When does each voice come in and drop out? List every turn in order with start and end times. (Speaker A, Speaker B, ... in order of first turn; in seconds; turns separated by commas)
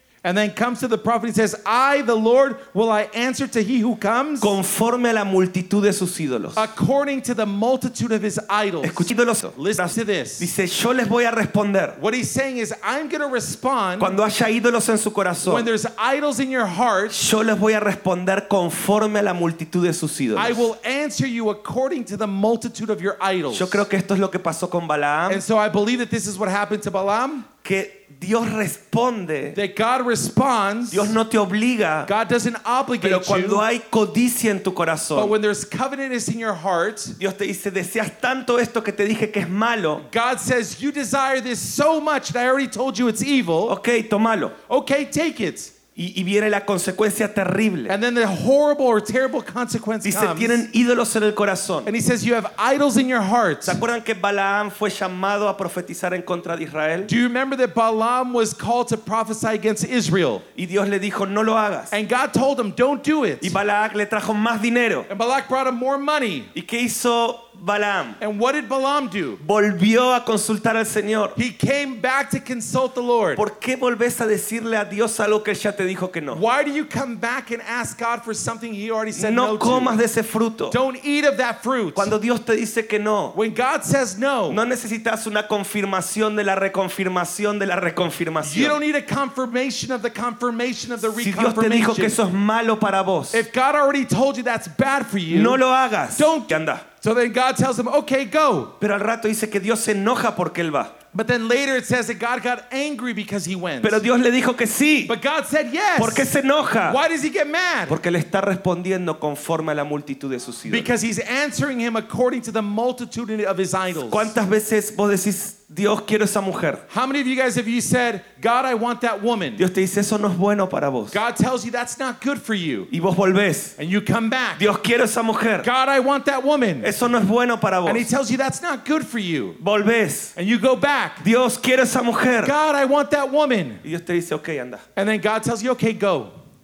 Speaker A: 0.2-4.5, Speaker B: 4.4-6.7, Speaker A: 6.6-10.5, Speaker B: 8.8-12.0, Speaker A: 12.0-14.2, Speaker B: 14.0-15.7, Speaker A: 15.5-17.2, Speaker B: 17.1-20.7, Speaker A: 20.4-23.9, Speaker B: 23.5-25.4, Speaker A: 25.3-27.5, Speaker B: 27.6-29.6, Speaker A: 29.5-31.2, Speaker B: 30.9-32.1, Speaker A: 32.1-33.6, Speaker B: 33.0-35.3, Speaker A: 35.1-37.2, Speaker B: 37.2-40.0, Speaker A: 40.0-43.8, Speaker B: 43.7-44.6, Speaker A: 44.7-45.7, Speaker B: 46.0-48.0, Speaker A: 47.9-50.6, Speaker B: 50.0-51.9, Speaker A: 51.9-53.8, Speaker B: 53.6-57.1, Speaker A: 57.1-60.4, Speaker B: 60.5-61.9, Speaker A: 61.9-63.6, Speaker B: 63.4-65.1, Speaker A: 65.1-66.5, Speaker B: 66.5-68.2, Speaker A: 68.2-69.4, Speaker B: 69.4-71.4, Speaker A: 71.4-73.4, Speaker B: 73.4-76.4, Speaker A: 76.3-80.0, Speaker B: 79.1-80.8, Speaker A: 80.7-82.1, Speaker B: 82.0-83.4, Speaker A: 83.3-84.6, Speaker B: 84.5-88.8, Speaker A: 88.4-92.2, Speaker B: 91.1-93.5, Speaker A: 93.3-95.6, Speaker B: 95.3-96.8, Speaker A: 96.1-98.8, Speaker B: 98.8-100.9, Speaker A: 101.1-104.0, Speaker B: 103.8-105.1, Speaker A: 105.1-108.0, Speaker B: 106.0-107.0, Speaker B: 107.9-110.9, Speaker A: 110.7-114.3, Speaker B: 114.0-116.8, Speaker A: 116.9-119.6, Speaker B: 119.6-121.2, Speaker A: 121.1-122.9, Speaker B: 122.9-123.8, Speaker A: 123.8-124.7, Speaker B: 124.6-125.7, Speaker A: 125.6-126.9, Speaker B: 126.8-128.1, Speaker A: 127.8-129.6, Speaker B: 129.6-130.3, Speaker A: 130.4-131.2, Speaker B: 131.2-132.5, Speaker A: 132.4-133.8, Speaker B: 133.8-134.8, Speaker A: 135.0-136.3